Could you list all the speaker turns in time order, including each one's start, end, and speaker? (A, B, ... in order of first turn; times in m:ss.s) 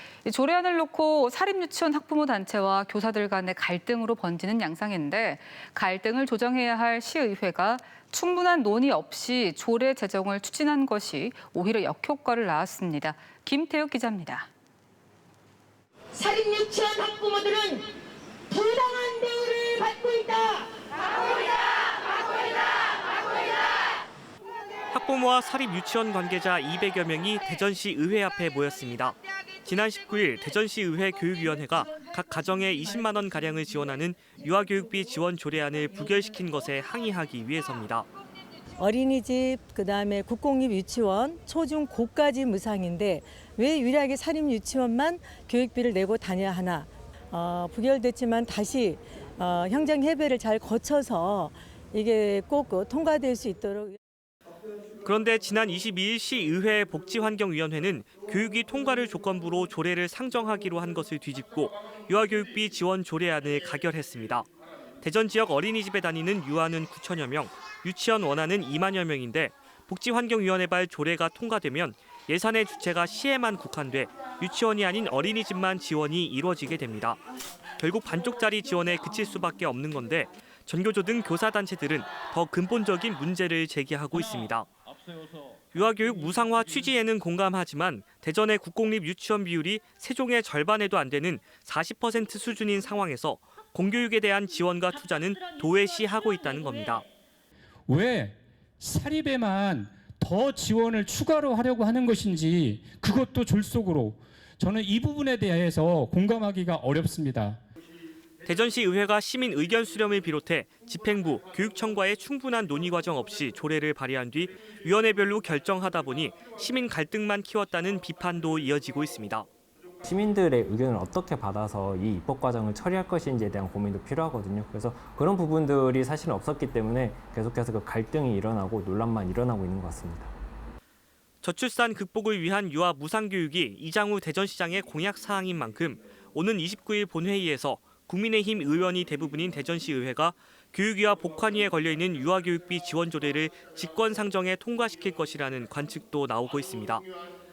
0:00.2-0:14.5 A
0:16.1-0:17.9 B
0:18.5-0:20.7 B
0:24.9-0:38.1 C
0:38.8-0:54.0 D
0:55.0-1:04.5 C
1:05.0-1:17.2 C
1:17.8-1:24.7 C
1:25.7-1:37.0 C
1:37.9-1:47.6 E
1:48.4-1:59.5 C
2:00.0-2:10.3 F
2:11.4-2:27.0 C